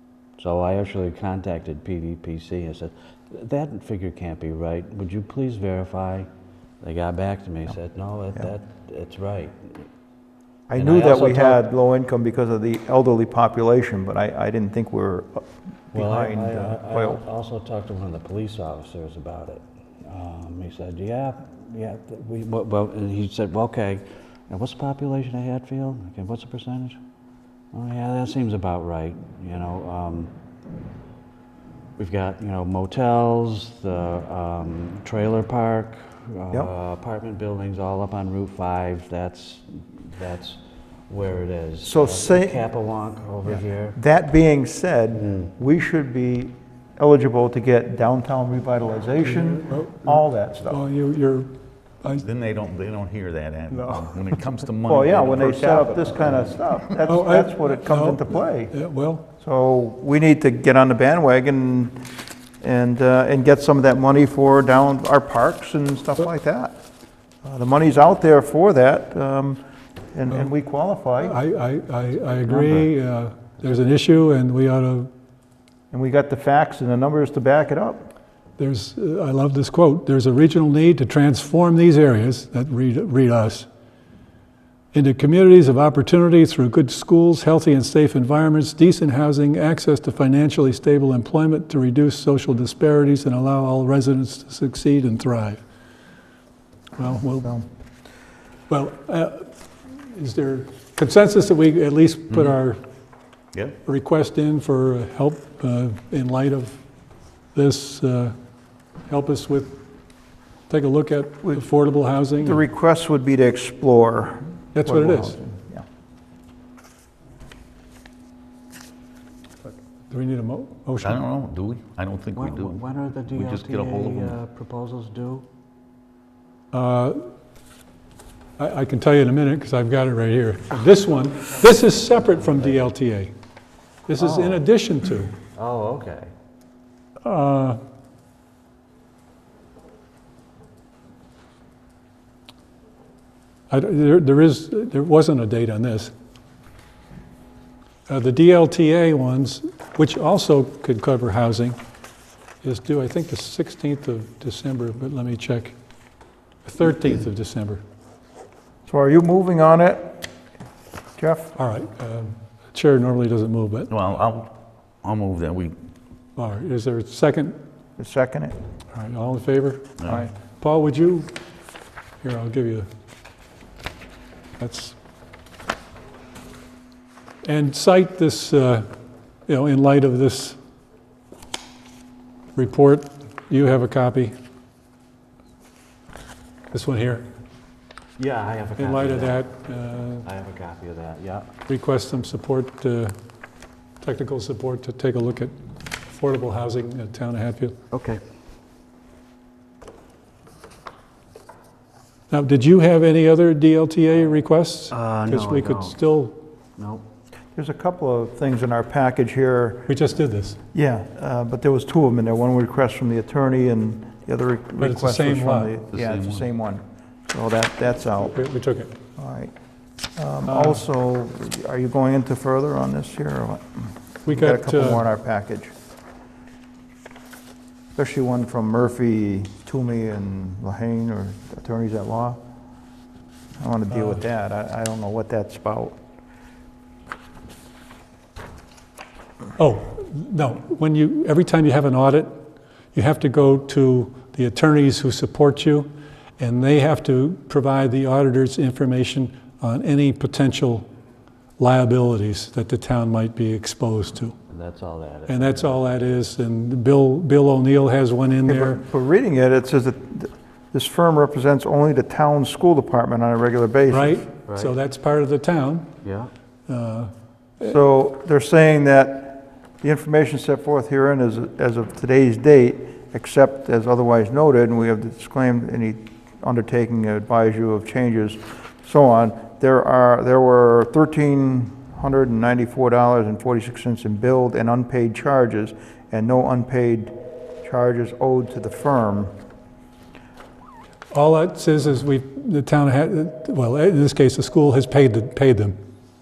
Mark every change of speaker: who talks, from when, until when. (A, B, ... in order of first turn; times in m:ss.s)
0:00.4-0:06.3 A
0:06.8-0:09.9 A
0:10.7-0:17.2 B
0:10.8-0:11.6 A
0:15.9-0:27.0 A
0:27.7-0:30.3 A
0:32.0-0:44.0 A
0:41.8-0:42.6 B
0:43.4-0:50.8 B
0:45.2-0:45.5 A
0:49.2-0:51.5 C
0:52.2-0:55.6 D
0:54.8-0:58.7 B
0:57.0-0:59.2 C
0:59.4-1:02.0 B
1:02.6-1:06.8 B
1:07.4-1:09.6 B
1:10.1-1:11.4 B
1:11.2-1:15.1 C
1:12.5-1:12.8 A
1:15.9-1:18.1 B
1:18.6-1:23.7 C
1:24.9-1:35.6 C
1:37.0-1:37.5 C
1:38.7-1:42.8 C
1:42.3-1:42.6 D
1:43.8-1:46.8 C
1:47.6-1:48.3 C
1:49.1-1:49.8 C
1:50.7-1:52.6 C
1:52.4-1:55.8 B
1:54.8-1:55.4 C
2:00.1-2:01.2 C
2:01.0-2:04.4 D
2:02.4-2:05.4 A
2:06.7-2:07.2 C
2:08.6-2:13.3 C
2:12.2-2:12.8 A
2:14.1-2:15.3 C
2:14.2-2:14.6 A
2:15.5-2:16.3 A
2:17.2-2:17.8 C
2:23.7-2:26.1 C
2:28.1-2:31.8 C
2:32.6-2:35.8 C
2:36.6-2:37.8 C
2:38.9-2:40.2 B
2:41.2-2:41.5 B
2:41.6-2:43.9 C
2:43.9-2:45.8 D
2:46.4-2:47.6 C
2:48.0-2:48.6 B
2:48.9-2:51.3 C
2:52.2-2:52.9 C
2:54.6-2:55.0 C
2:57.4-2:58.9 C
2:59.5-3:00.6 C
3:02.6-3:04.3 C
3:06.7-3:07.3 C
3:08.2-3:09.5 A
3:08.8-3:10.3 C
3:10.2-3:11.5 A
3:11.7-3:13.1 C
3:14.0-3:15.5 C
3:16.0-3:17.8 C
3:17.9-3:18.2 A
3:22.3-3:26.4 C
3:24.9-3:26.0 A
3:26.8-3:27.0 A
3:27.6-3:29.9 B
3:29.9-3:30.6 C
3:30.7-3:38.4 B
3:34.8-3:35.8 C
3:35.9-3:36.5 D
3:38.3-3:38.9 C
3:39.2-3:39.5 B
3:40.2-3:45.7 B
3:40.5-3:40.8 C
3:44.2-3:45.1 C
3:48.0-3:52.4 B
3:53.6-3:56.0 B
3:53.9-3:54.2 C
3:59.6-4:02.4 C
4:02.9-4:10.9 C
4:11.6-4:14.4 C
4:14.5-4:15.8 A
4:15.3-4:18.8 C
4:18.4-4:24.2 B
4:23.9-4:25.9 C
4:24.5-4:24.8 A
4:26.0-4:26.3 A
4:26.7-4:27.1 C
4:27.6-4:49.3 B
4:51.1-4:55.8 C